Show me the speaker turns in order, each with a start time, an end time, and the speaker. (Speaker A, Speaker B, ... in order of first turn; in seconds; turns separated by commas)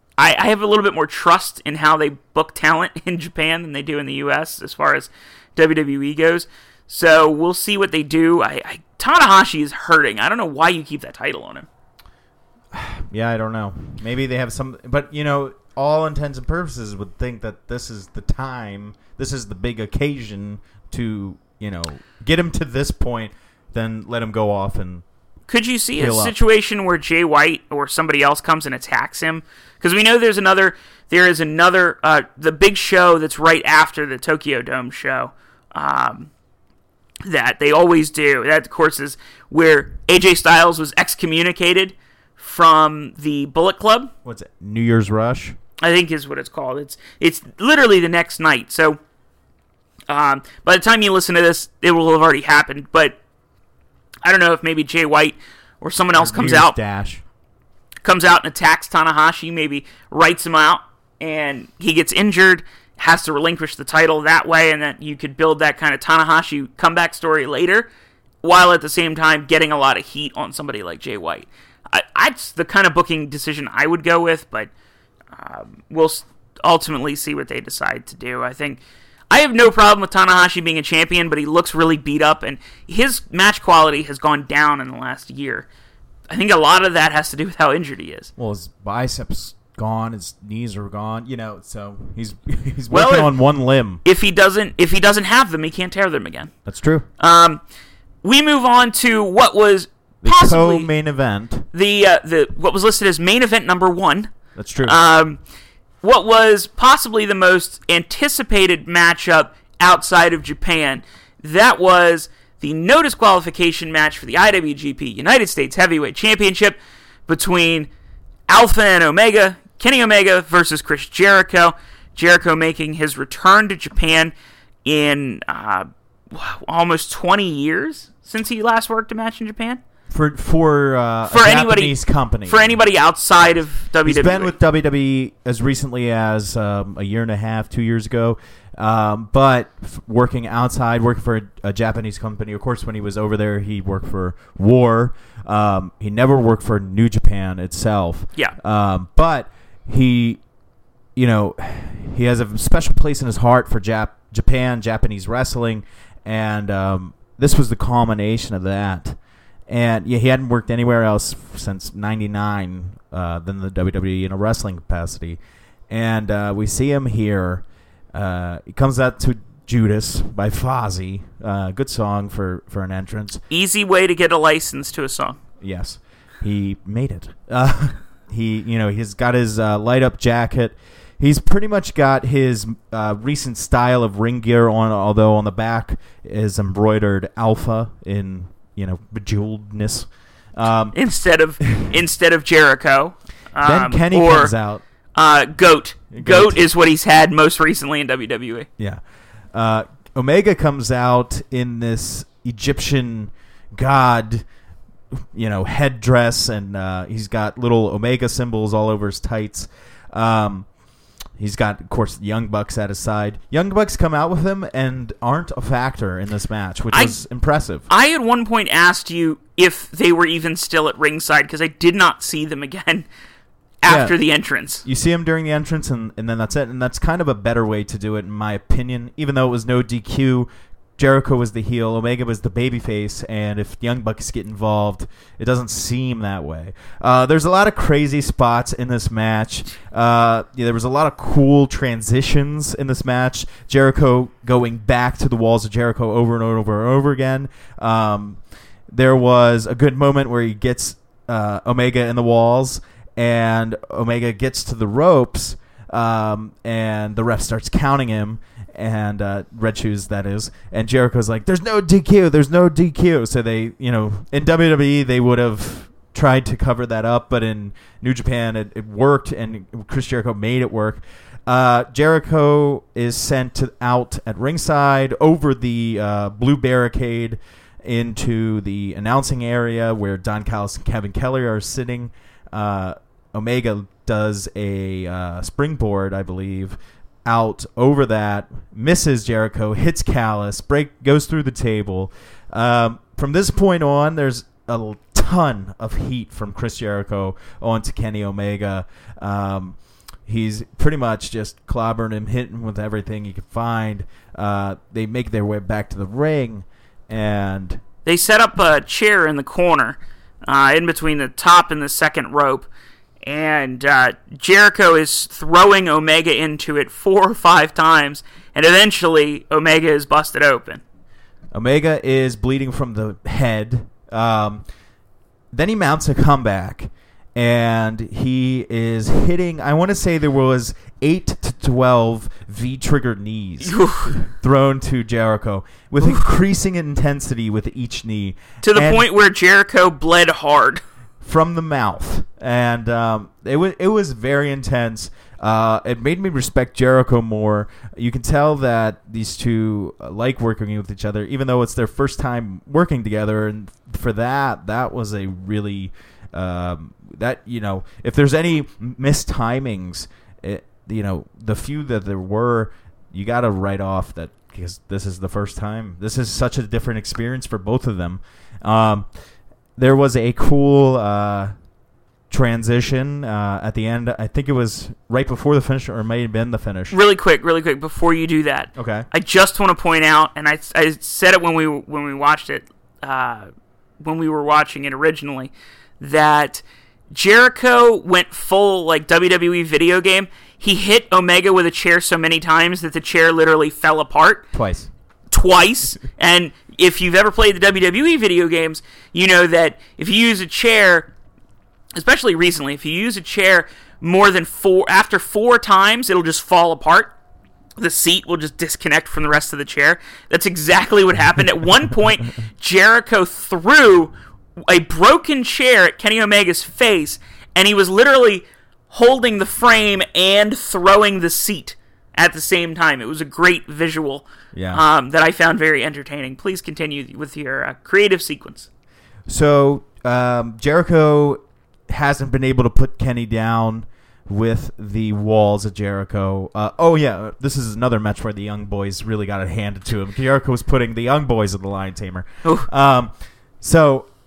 Speaker A: 0.2-11.7, Speaker B: 12.7-25.0, Speaker A: 25.5-36.3, Speaker B: 25.9-26.3, Speaker A: 37.2-44.1, Speaker B: 44.2-45.5, Speaker A: 45.8-49.0, Speaker A: 50.1-53.2, Speaker A: 54.2-56.7, Speaker B: 56.1-57.2, Speaker A: 58.0-67.9, Speaker A: 68.4-74.7, Speaker A: 75.3-85.7, Speaker A: 86.3-88.3, Speaker B: 88.4-94.0, Speaker A: 92.9-93.3, Speaker A: 94.0-96.5, Speaker B: 96.7-97.1, Speaker A: 97.2-97.6, Speaker A: 98.2-100.9, Speaker B: 100.2-101.7, Speaker A: 101.7-104.3, Speaker B: 104.5-105.0, Speaker A: 104.8-105.4, Speaker A: 106.0-117.9, Speaker A: 118.5-124.3, Speaker A: 124.8-129.8, Speaker B: 130.1-132.7, Speaker A: 131.3-134.5, Speaker B: 134.0-150.4, Speaker B: 151.2-159.2, Speaker B: 159.7-173.4, Speaker A: 173.5-175.4, Speaker B: 175.6-190.9, Speaker A: 190.9-194.5, Speaker B: 193.6-194.8, Speaker A: 195.1-198.7, Speaker B: 196.1-196.6, Speaker B: 199.5-204.4, Speaker B: 205.2-210.7, Speaker B: 211.4-217.9, Speaker A: 216.9-217.2, Speaker A: 217.9-223.1, Speaker A: 223.8-224.8, Speaker B: 223.8-224.2, Speaker B: 224.8-307.8, Speaker A: 308.0-312.7, Speaker A: 313.2-320.8, Speaker B: 321.5-324.6, Speaker B: 325.5-339.0, Speaker A: 333.6-334.1, Speaker A: 338.6-340.8, Speaker B: 341.2-369.1, Speaker B: 369.8-371.5, Speaker B: 372.3-376.9, Speaker A: 376.9-383.5, Speaker B: 378.7-379.1, Speaker A: 384.0-394.4, Speaker B: 394.5-394.9, Speaker A: 395.3-401.1, Speaker A: 401.9-407.1, Speaker A: 407.8-414.1, Speaker A: 414.6-428.7, Speaker B: 424.5-424.8, Speaker B: 429.3-444.1